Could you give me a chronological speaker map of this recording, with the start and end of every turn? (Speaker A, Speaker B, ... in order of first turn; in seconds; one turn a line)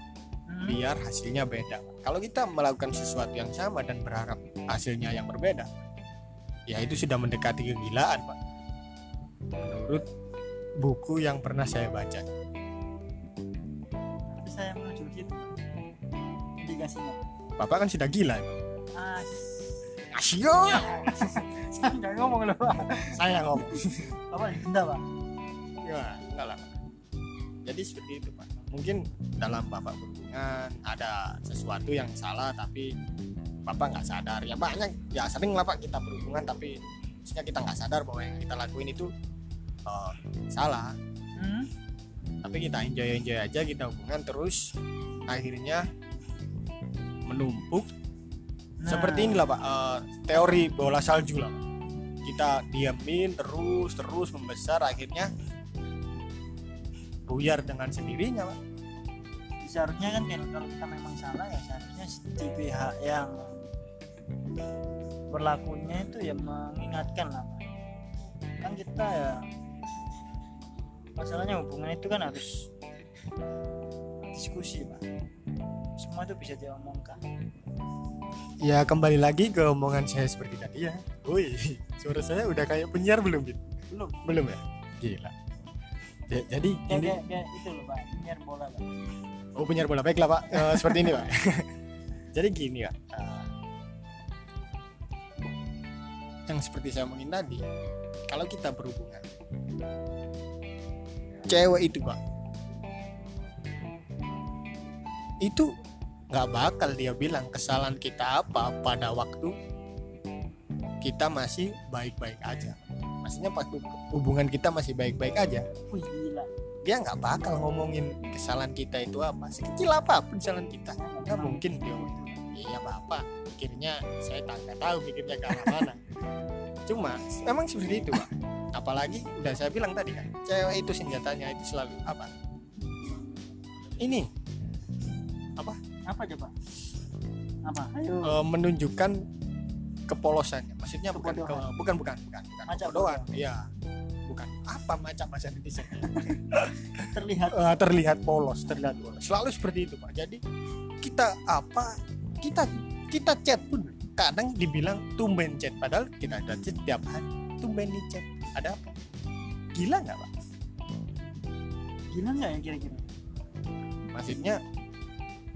Speaker A: 0.5-0.8
Speaker B: 0.7-5.7
Speaker B: 6.7-8.3
Speaker B: 9.6-10.1
Speaker B: 10.8-12.2
Speaker A: 14.3-15.5
Speaker A: 16.6-17.3
Speaker B: 17.6-18.6
Speaker A: 18.9-19.8
Speaker B: 20.1-21.1
Speaker A: 20.7-25.0
Speaker B: 23.1-24.1
Speaker B: 25.8-26.7
Speaker B: 27.6-32.9
Speaker B: 33.7-39.1
Speaker B: 39.9-40.9
Speaker A: 41.4-41.7
Speaker B: 42.4-44.7
Speaker B: 45.3-45.8
Speaker B: 47.3-47.9
Speaker A: 48.8-49.4
Speaker B: 48.9-51.6
Speaker A: 50.2-50.7
Speaker B: 52.2-55.3
Speaker B: 57.3-58.6
Speaker A: 59.6-63.6
Speaker A: 65.3-67.6
Speaker A: 68.6-69.4
Speaker A: 71.2-72.7
Speaker A: 74.3-75.0
Speaker A: 76.0-77.2
Speaker B: 78.6-83.6
Speaker A: 83.9-84.2
Speaker B: 84.2-85.3
Speaker B: 86.3-87.2
Speaker A: 86.9-89.0
Speaker B: 89.5-91.7
Speaker A: 90.5-91.2
Speaker B: 92.3-93.5
Speaker B: 96.5-97.6
Speaker B: 98.3-99.3
Speaker B: 101.5-102.2
Speaker B: 105.4-105.7
Speaker B: 106.3-109.5
Speaker B: 111.0-115.7
Speaker A: 115.9-116.5
Speaker B: 116.8-126.0
Speaker A: 121.0-122.4
Speaker B: 126.8-132.3
Speaker B: 134.0-134.3
Speaker A: 136.1-136.5
Speaker A: 137.7-138.3
Speaker B: 138.2-139.2
Speaker B: 140.1-143.6
Speaker A: 141.1-141.7
Speaker A: 142.7-143.3
Speaker B: 144.3-150.4
Speaker A: 146.0-146.4
Speaker A: 146.9-147.6
Speaker B: 151.0-158.9
Speaker B: 159.7-160.3
Speaker A: 162.1-163.1
Speaker B: 164.1-164.6